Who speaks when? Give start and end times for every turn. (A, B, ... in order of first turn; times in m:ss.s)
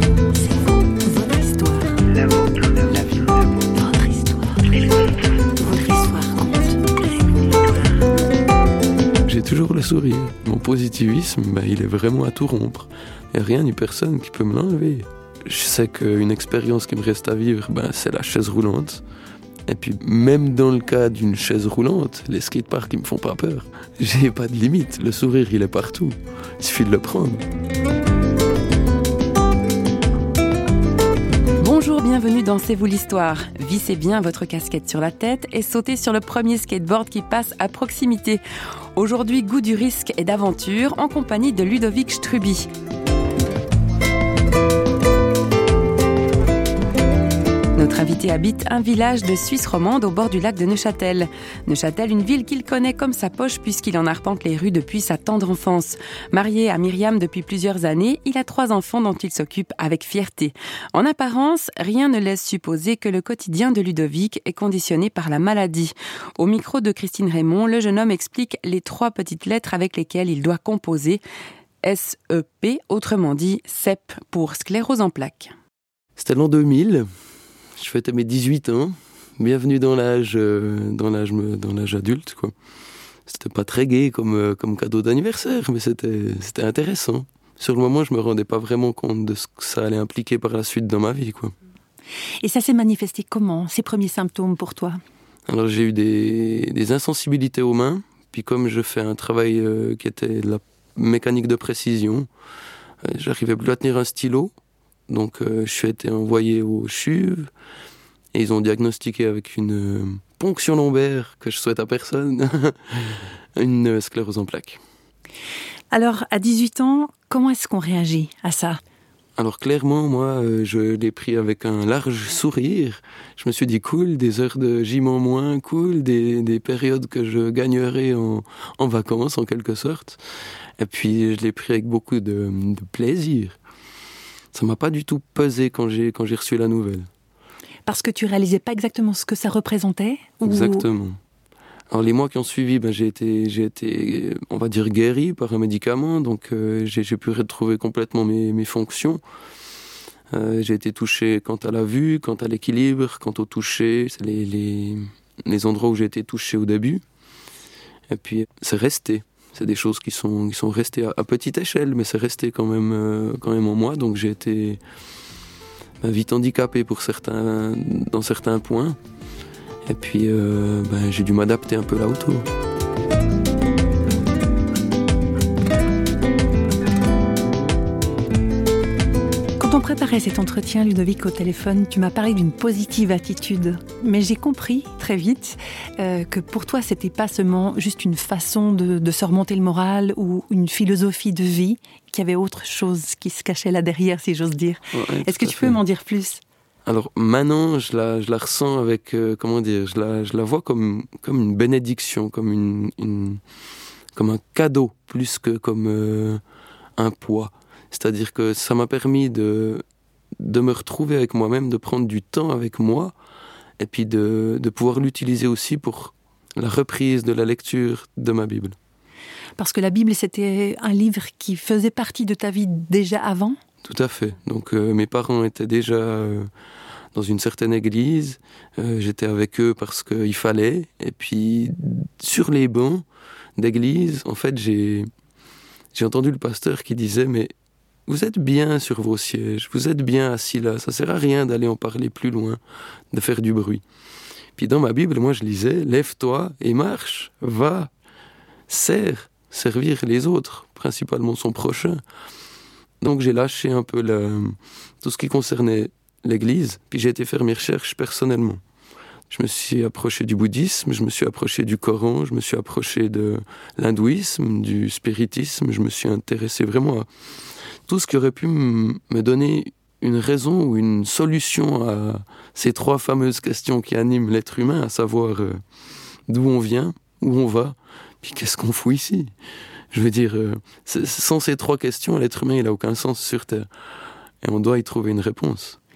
0:00.4-0:02.4 A
0:03.6-0:04.9 A
0:05.6-0:07.6 A
0:09.2-0:19.0 B
0:19.7-0:27.4 B
0:31.6-0:38.4 C
0:39.0-0:42.7 C
0:47.8-1:11.2 C
1:11.8-1:15.5 C
1:16.2-1:17.1 B
1:17.8-1:22.5 B
1:23.3-1:31.5 B
1:32.4-1:35.0 A
1:35.5-1:42.3 B
1:43.0-1:44.5 B
1:45.1-1:47.5 B
1:48.3-1:54.8 B
1:55.9-1:58.8 A
1:59.4-2:10.2 B
2:10.8-2:13.6 B
2:14.5-2:17.1 B
2:17.9-2:20.9 A
2:20.4-2:21.2 B
2:21.9-2:29.2 B
2:30.3-2:37.0 B
2:38.1-2:44.8 B
2:46.0-2:49.0 B
2:49.9-2:52.5 B
2:59.6-3:16.4 A
3:14.9-3:15.8 B
3:16.9-3:23.4 B
3:24.2-3:26.4 B
3:27.0-3:29.8 B
3:30.4-3:33.1 B
3:33.8-3:38.8 B
3:39.6-3:43.6 A
3:43.8-3:46.5 B
3:47.2-3:53.0 B
3:53.6-3:55.1 B
3:55.9-3:57.5 B
3:58.1-4:02.6 B
4:03.1-4:03.8 B
4:04.6-4:07.9 B
4:08.7-4:12.0 B
4:13.0-4:18.6 B
4:19.3-4:27.1 B
4:27.9-4:35.6 B
4:36.3-4:39.3 B
4:39.9-4:43.7 B
4:44.4-4:45.8 B